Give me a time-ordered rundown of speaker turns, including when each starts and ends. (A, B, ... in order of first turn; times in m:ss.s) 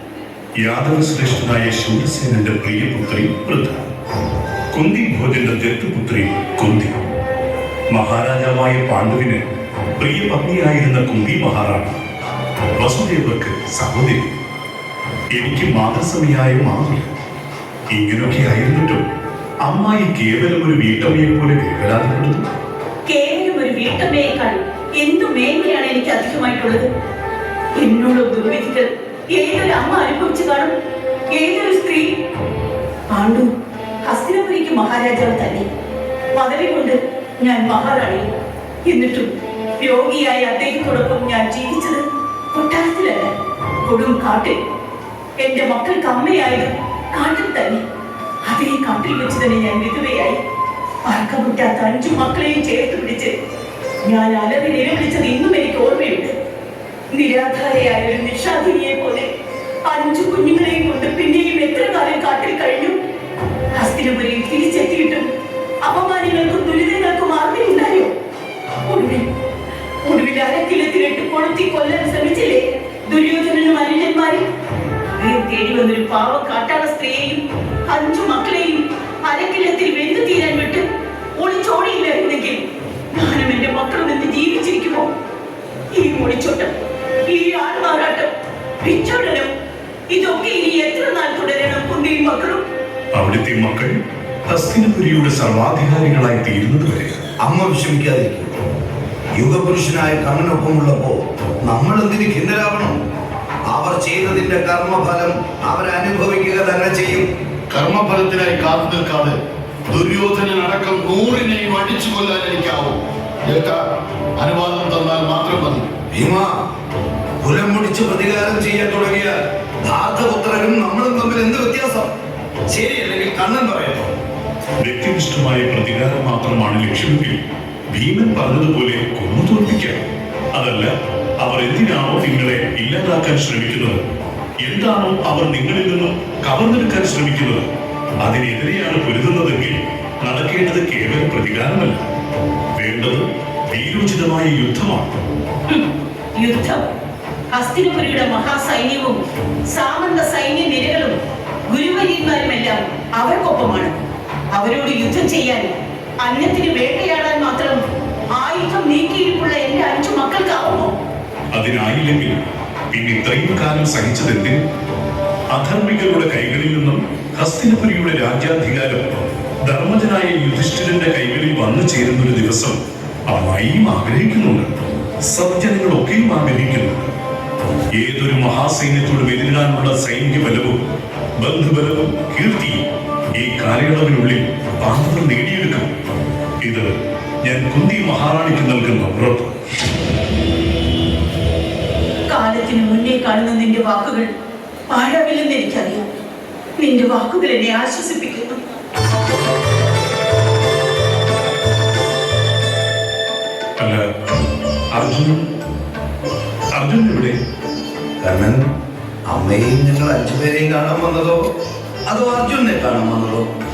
0:00.6-0:03.8 A
0:04.7-0:06.9 A
0:07.9-0:09.4 A
0:10.0-0:12.0 A
0:12.8-0:14.3 A
0:15.3-0:17.1 A
0:17.9-0:19.0 A
0:19.6-0:22.4 A
0:23.1-0:26.9 B
0:27.7-0:30.7 B
0:31.3-0:32.1 B
0:33.1-0:33.5 B
0:34.0-0:35.7 B
0:36.4-0:38.3 B
0:38.9-0:43.3 B
0:43.8-0:44.6 B
0:45.4-0:47.8 B
0:48.4-0:50.4 B
0:51.0-0:53.3 B
0:54.0-0:56.4 B
0:57.1-0:59.3 B
0:59.8-1:03.0 B
1:03.7-1:05.3 B
1:05.8-1:08.1 B
1:08.8-1:09.3 B
1:10.0-1:14.5 B
1:15.2-1:20.8 B
1:21.4-1:25.1 B
1:25.9-1:26.7 B
1:27.3-1:29.5 B
1:30.1-1:32.6 B
1:33.1-1:33.9 A
1:34.5-1:37.2 A
1:37.4-1:38.6 C
1:39.4-1:42.9 C
1:43.7-1:47.3 C
1:47.7-1:49.4 D
1:49.9-1:53.8 D
1:54.4-1:55.9 D
1:56.1-1:56.6 C
1:57.4-2:02.1 C
2:02.7-2:04.1 C
2:04.8-2:07.4 A
2:07.9-2:10.0 A
2:10.5-2:14.0 A
2:14.6-2:17.7 A
2:18.2-2:22.0 A
2:22.8-2:25.1 A
2:25.7-2:26.9 B
2:27.5-2:31.2 B
2:31.7-2:33.9 B
2:34.5-2:37.8 B
2:38.4-2:40.9 B
2:41.5-2:44.6 A
2:45.5-2:52.8 A
2:53.3-2:54.7 A
2:55.3-2:57.1 A
2:58.0-3:00.8 A
3:01.4-3:02.8 A
3:03.4-3:05.9 A
3:06.6-3:06.9 A
3:07.4-3:09.5 A
3:12.3-3:14.3 B
3:14.9-3:16.0 B
3:16.8-3:18.6 B
3:23.8-3:24.0 A
3:24.9-3:25.5 A
3:26.7-3:27.4 A
3:28.2-3:28.7 C
3:29.3-3:31.5 C
3:32.1-3:33.5 C